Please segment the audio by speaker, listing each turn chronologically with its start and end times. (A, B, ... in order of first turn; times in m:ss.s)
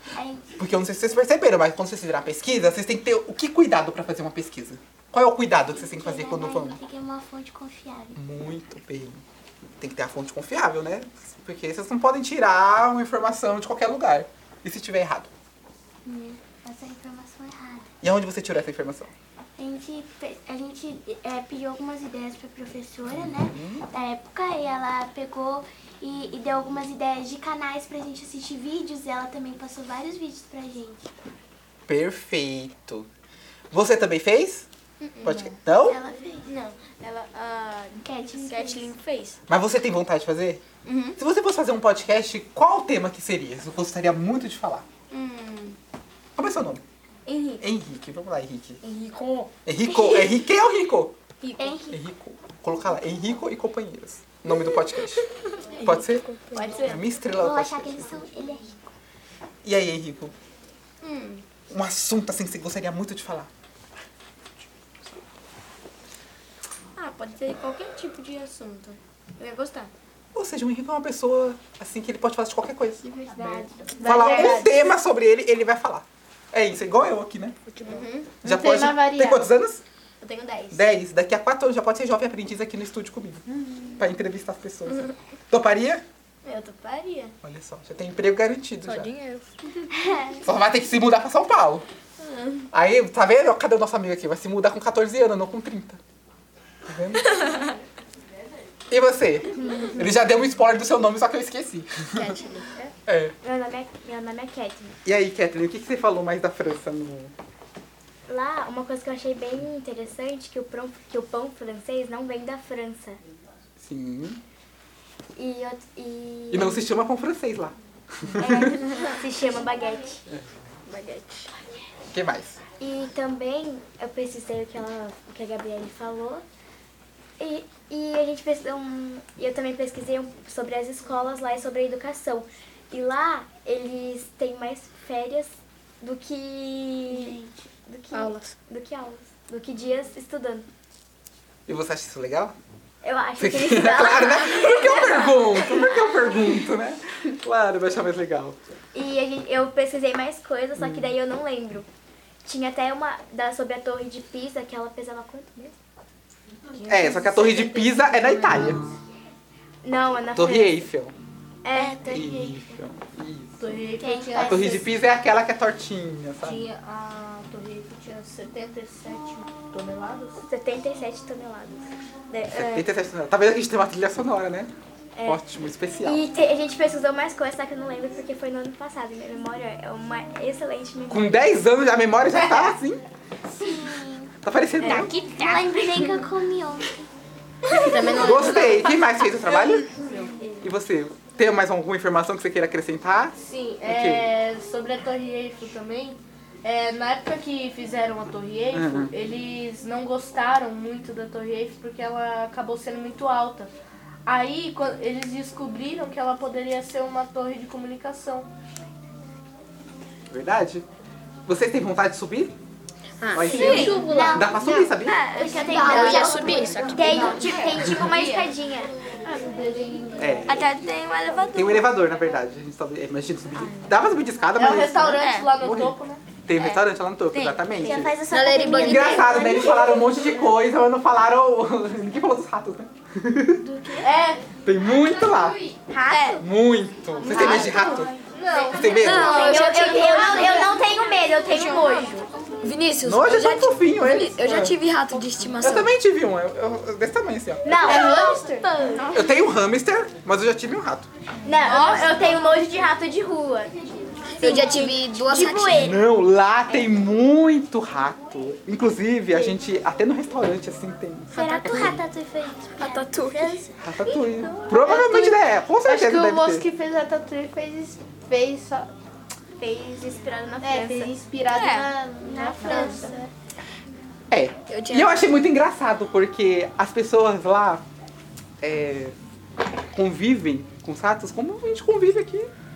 0:00.1-0:00.6 A
0:00.6-0:06.8 B
0:05.6-0:08.2 A
0:08.1-0:09.2 B
0:09.8-0:15.3 B
0:16.0-0:17.9 A
0:18.0-0:19.1 B
0:19.6-0:31.1 A
0:23.1-0:23.9 B
0:31.9-0:33.1 B
0:33.7-0:34.7 B
0:35.2-0:36.0 B
0:35.8-0:36.5 A
0:36.5-0:39.4 C
0:38.0-0:38.9 A
0:39.5-0:40.6 B
0:41.2-0:44.8 B
0:46.4-0:46.8 B
0:47.2-0:47.6 D
0:47.6-0:48.8 B
0:49.6-0:51.1 B
0:49.9-0:50.3 A
0:51.6-0:52.0 A
0:51.9-0:55.2 B
0:55.8-0:58.2 B
0:56.5-0:57.0 E
0:57.2-0:58.9 A
0:59.6-1:00.3 B
1:01.0-1:01.4 C
1:01.7-1:03.5 B
1:07.0-1:09.0 C
1:10.3-1:13.1 B
1:13.2-1:13.9 A
1:14.0-1:14.8 E
1:14.0-1:17.6 B
1:17.9-1:19.5 E
1:18.4-1:19.8 B
1:20.7-1:26.0 B
1:27.4-1:29.1 B
1:30.0-1:30.4 A
1:30.4-1:31.8 B
1:32.7-1:36.0 B
1:36.8-1:37.6 B
1:38.9-1:42.4 B
1:43.0-1:43.3 B
1:43.4-1:45.0 D
1:45.0-1:47.3 B
1:48.3-1:53.2 D
1:53.8-1:54.4 B
1:55.4-1:56.9 D
1:56.5-1:58.9 B
1:58.4-2:00.2 D
2:00.9-2:01.5 F
2:02.1-2:02.6 B
2:02.8-2:06.4 D
2:07.4-2:20.7 D
2:17.1-2:17.5 A
2:18.1-2:18.5 F
2:21.7-2:22.5 B
2:23.0-2:26.4 D
2:23.4-2:28.6 B
2:28.9-2:31.9 D
2:30.8-2:31.1 B
2:32.4-2:35.7 D
2:36.7-2:38.8 C
2:36.9-2:38.9 B
2:39.8-2:40.9 D
2:40.3-2:41.1 B
2:41.6-2:42.2 D
2:41.7-2:42.6 A
2:42.1-2:43.6 B
2:43.6-2:44.9 C
2:44.0-2:44.8 A
2:44.4-2:46.6 B
2:46.4-2:50.4 C
2:50.4-2:52.9 D
2:52.5-2:54.7 B
2:55.2-2:55.4 D
2:55.2-2:56.2 B
2:56.0-3:01.6 D
3:01.1-3:03.0 B
3:03.5-3:07.0 A
3:04.4-3:05.1 B
3:04.8-3:06.0 D
3:07.8-3:09.9 B
3:07.9-3:08.8 F
3:08.0-3:08.9 A
3:10.0-3:10.3 C
3:10.6-3:14.4 B
3:13.4-3:23.7 C
3:18.7-3:19.1 B
3:24.2-3:28.5 C
3:30.3-3:30.8 B
3:31.4-3:32.5 B
3:33.2-3:34.9 F
3:33.3-3:35.7 B
3:33.5-3:34.0 C
3:33.6-3:34.0 E
3:33.6-3:34.5 A
3:35.3-3:37.6 A
3:35.3-3:38.4 C
3:35.6-3:38.9 D
3:35.7-3:36.1 E
3:35.7-3:36.9 F
3:36.9-3:37.5 E
3:39.2-3:40.7 E
3:39.3-3:41.6 C
3:40.2-3:40.8 B
3:41.5-3:53.7 B
3:43.5-3:44.1 D
3:44.5-3:46.2 C
3:47.6-3:50.0 A
3:48.3-3:49.8 F
3:54.0-3:54.4 C
3:54.6-3:55.6 B
3:55.9-3:56.4 D
3:56.4-3:58.1 B
3:57.2-3:58.1 D
3:58.2-4:00.8 C
3:58.7-3:59.8 B
3:59.0-3:59.6 F
3:59.1-4:00.6 E
3:59.2-4:02.2 D
4:01.6-4:02.0 C
4:02.6-4:05.9 F
4:03.0-4:04.8 B
4:05.6-4:08.0 B
4:07.6-4:08.3 D
4:07.8-4:09.0 E
4:07.8-4:09.2 C
4:09.1-4:11.1 B
4:11.4-4:13.7 D
4:11.7-4:12.6 C
4:14.4-4:16.0 F
4:14.4-4:14.7 D
4:15.2-4:15.9 D
4:15.3-4:15.9 A
4:15.7-4:22.0 B
4:21.3-4:23.7 A
4:22.8-4:23.6 F
4:23.8-4:26.7 B
4:24.0-4:24.7 C
4:24.7-4:28.9 E
4:29.6-4:31.1 D
4:30.6-4:33.3 E
4:32.2-4:33.1 A
4:34.3-4:37.8 B
4:34.7-4:35.3 F
4:38.6-4:39.1 B
4:39.9-4:42.5 B